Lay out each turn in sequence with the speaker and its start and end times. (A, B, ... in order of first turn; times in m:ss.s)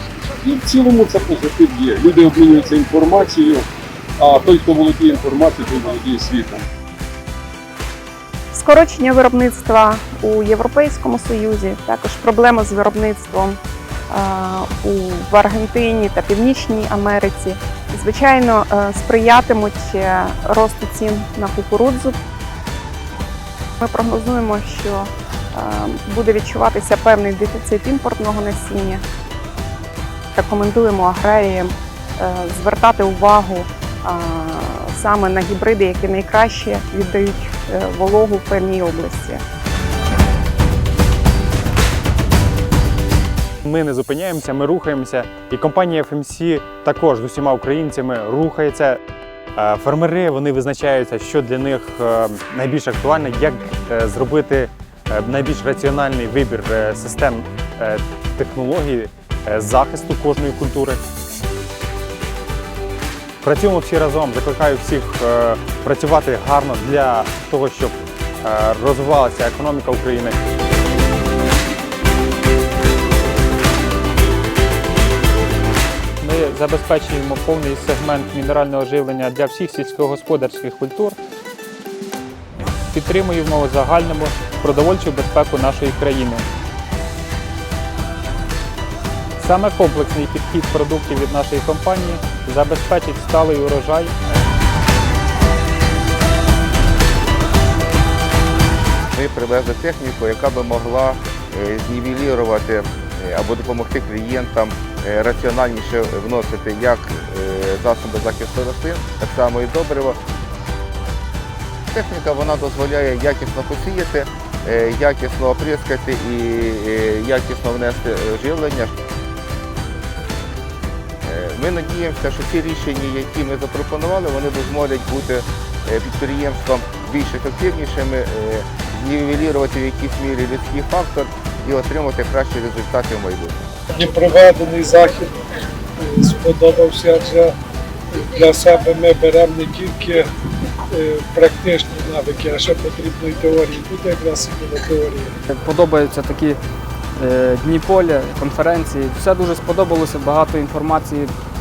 0:00.4-0:03.7 A
0:04.2-0:06.6 A
0:08.5-0:22.2 B
0:23.8-0:29.0 B
0:30.3-0:39.4 B
0:43.6-0:49.0 C
0:49.6-1:01.0 C
1:03.4-1:10.4 C
1:16.2-1:21.2 D
1:22.9-1:26.5 D
1:29.4-1:34.1 D
1:39.1-1:50.2 E
1:51.9-1:59.0 E
2:01.2-2:13.6 E
2:14.0-2:15.4 F
2:16.0-2:17.5 F
2:18.1-2:20.3 F
2:20.9-2:25.4 F
2:25.5-2:26.6 G
2:27.2-2:31.3 G